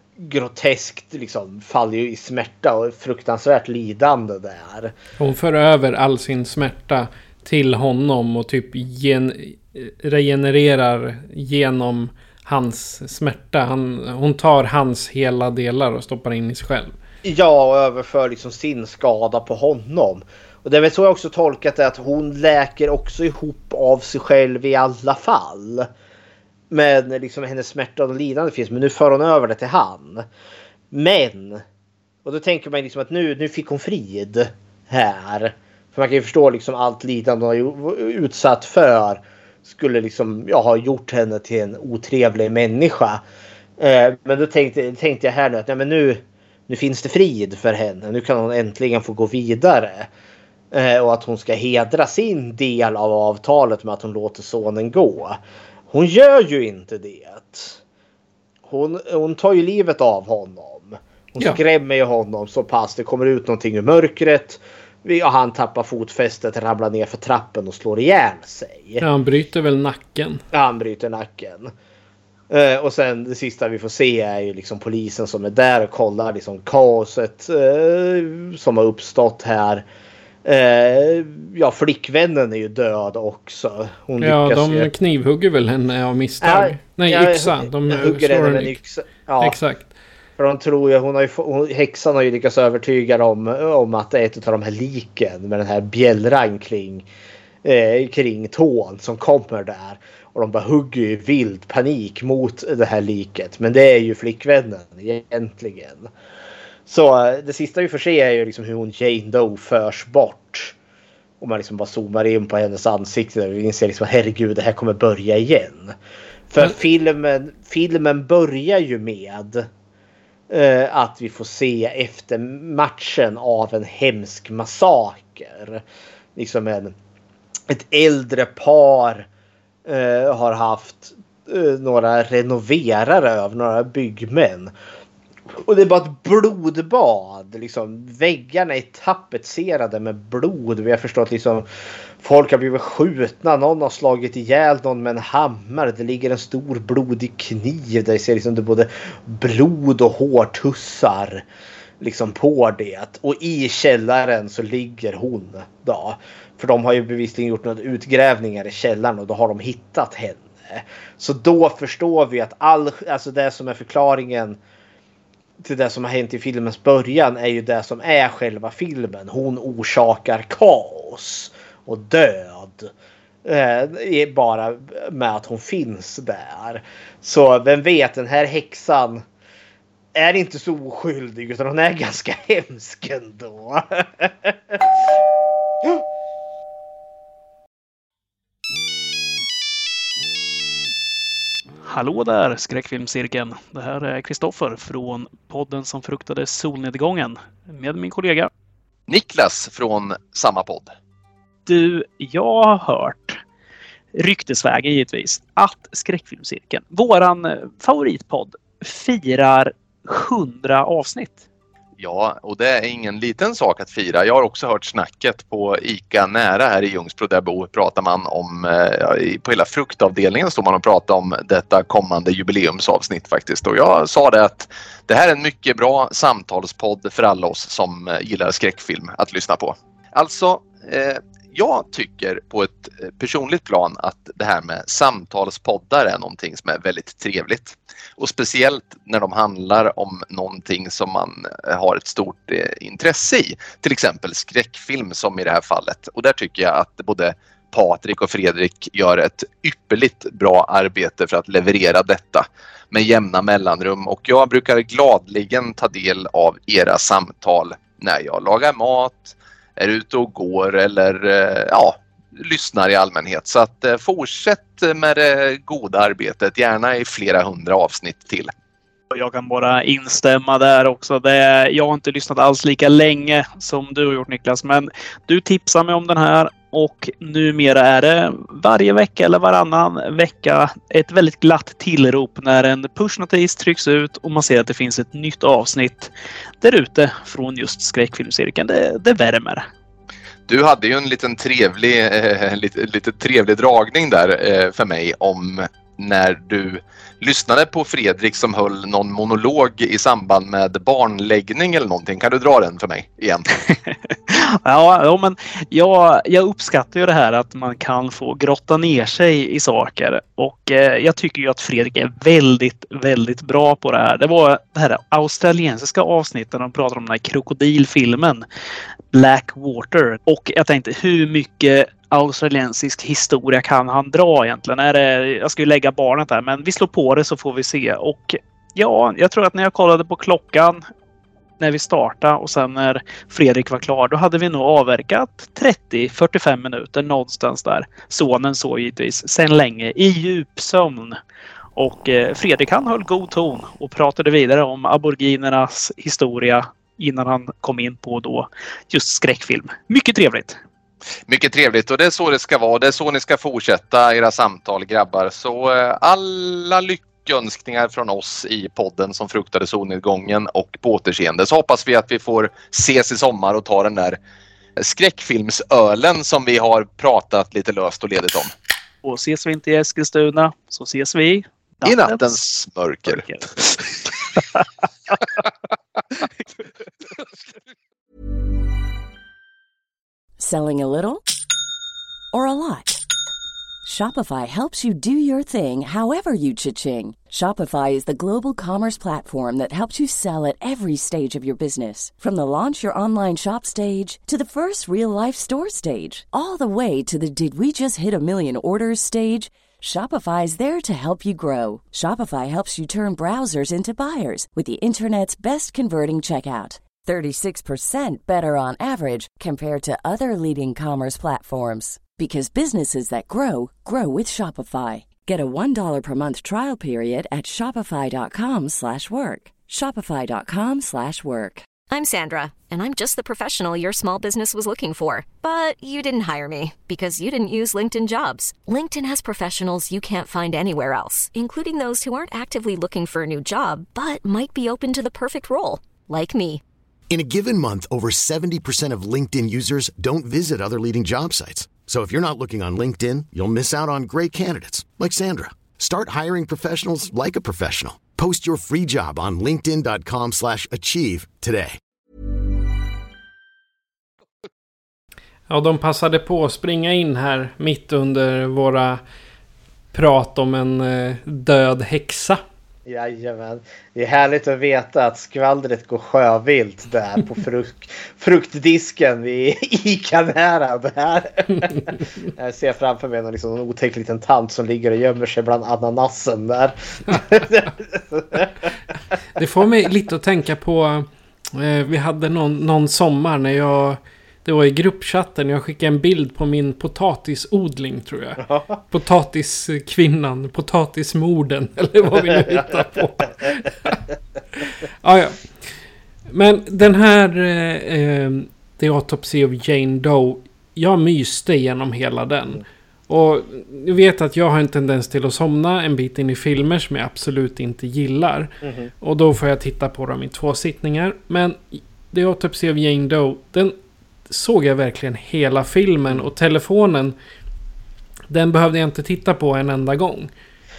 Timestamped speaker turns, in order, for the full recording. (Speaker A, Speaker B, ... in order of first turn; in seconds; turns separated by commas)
Speaker A: 0.2-4.9, Speaker B: 5.2-16.9, Speaker A: 17.2-25.9, Speaker A: 26.7-30.2, Speaker A: 30.9-31.6, Speaker A: 32.2-43.2, Speaker A: 43.8-50.1, Speaker A: 50.7-55.4, Speaker A: 55.9-57.8, Speaker A: 58.7-69.0, Speaker B: 69.0-70.4, Speaker A: 70.5-71.7, Speaker A: 72.5-79.8, Speaker A: 80.5-84.9, Speaker B: 84.2-88.8, Speaker A: 86.4-89.6, Speaker B: 89.4-89.9, Speaker A: 90.4-97.1, Speaker A: 97.6-106.1, Speaker A: 106.9-110.7, Speaker A: 111.4-115.9, Speaker A: 116.5-119.7, Speaker A: 120.5-125.8, Speaker A: 126.4-126.9, Speaker A: 127.7-129.3, Speaker A: 129.9-134.7, Speaker A: 135.6-141.7, Speaker A: 142.2-151.4, Speaker A: 152.0-164.6, Speaker A: 165.6-172.9, Speaker A: 173.4-179.2, Speaker A: 180.2-185.0, Speaker C: 191.8-198.5, Speaker D: 199.1-200.9, Speaker C: 201.7-203.4, Speaker C: 204.1-211.4, Speaker D: 212.0-268.5, Speaker C: 269.1-286.1, Speaker C: 286.6-289.7, Speaker D: 290.5-303.4, Speaker C: 304.3-318.4, Speaker C: 319.1-330.8, Speaker C: 331.6-341.2, Speaker C: 341.8-350.6, Speaker D: 351.3-364.2, Speaker D: 364.8-368.5, Speaker C: 369.0-372.4, Speaker D: 371.8-373.2, Speaker C: 373.0-373.8, Speaker E: 380.4-381.2, Speaker E: 382.3-383.0, Speaker E: 383.9-421.7, Speaker F: 421.9-436.6, Speaker G: 437.1-451.8, Speaker B: 455.5-459.0, Speaker B: 459.9-462.4, Speaker A: 462.9-478.7, Speaker B: 477.1-477.4, Speaker B: 479.4-493.7, Speaker A: 488.4-488.8, Speaker A: 492.1-493.0, Speaker B: 495.0-495.4, Speaker B: 496.3-513.7, Speaker A: 508.6-508.9, Speaker B: 514.3-517.1, Speaker B: 518.3-520.3